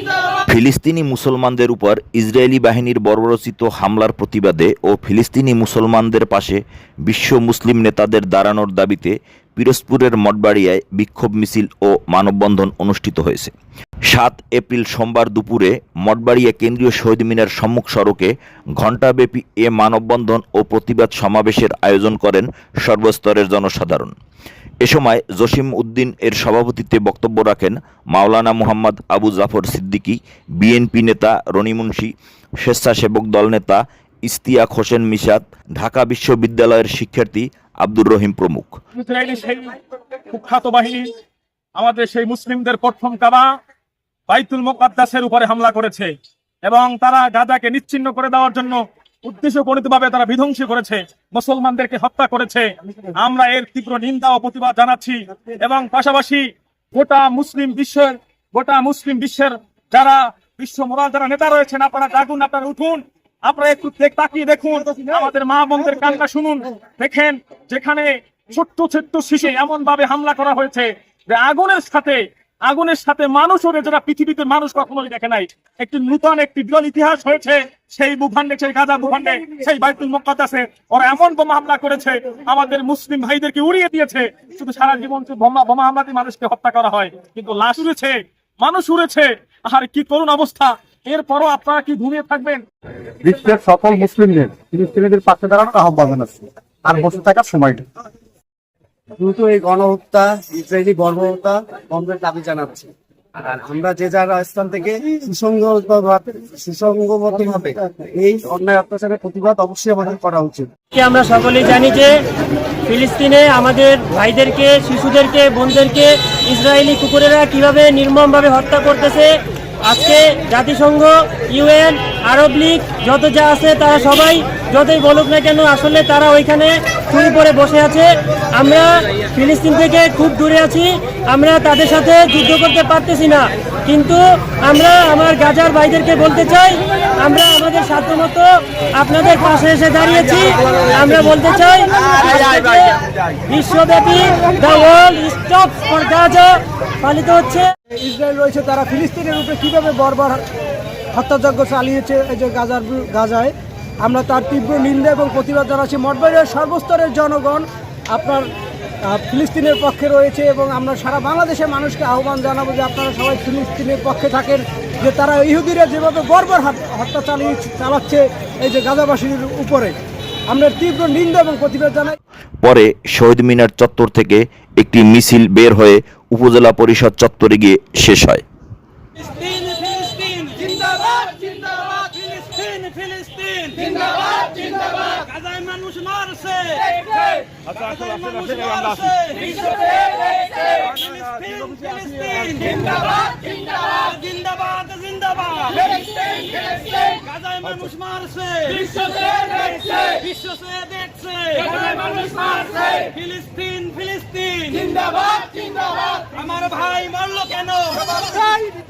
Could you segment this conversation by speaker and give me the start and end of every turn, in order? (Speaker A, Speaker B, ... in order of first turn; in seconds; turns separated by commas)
Speaker A: 0.5-13.5, Speaker A: 14.1-24.1, Speaker A: 24.8-38.8, Speaker B: 38.9-39.8, Speaker B: 40.3-41.1, Speaker B: 41.8-43.5, Speaker B: 44.3-46.1, Speaker B: 46.6-92.6, Speaker C: 93.2-97.8, Speaker D: 99.2-110.7, Speaker E: 110.9-112.2, Speaker E: 112.8-147.7, Speaker F: 147.9-150.4, Speaker F: 151.1-158.5, Speaker F: 159.1-169.9, Speaker F: 170.5-172.2, Speaker A: 172.6-178.4, Speaker G: 179.2-208.7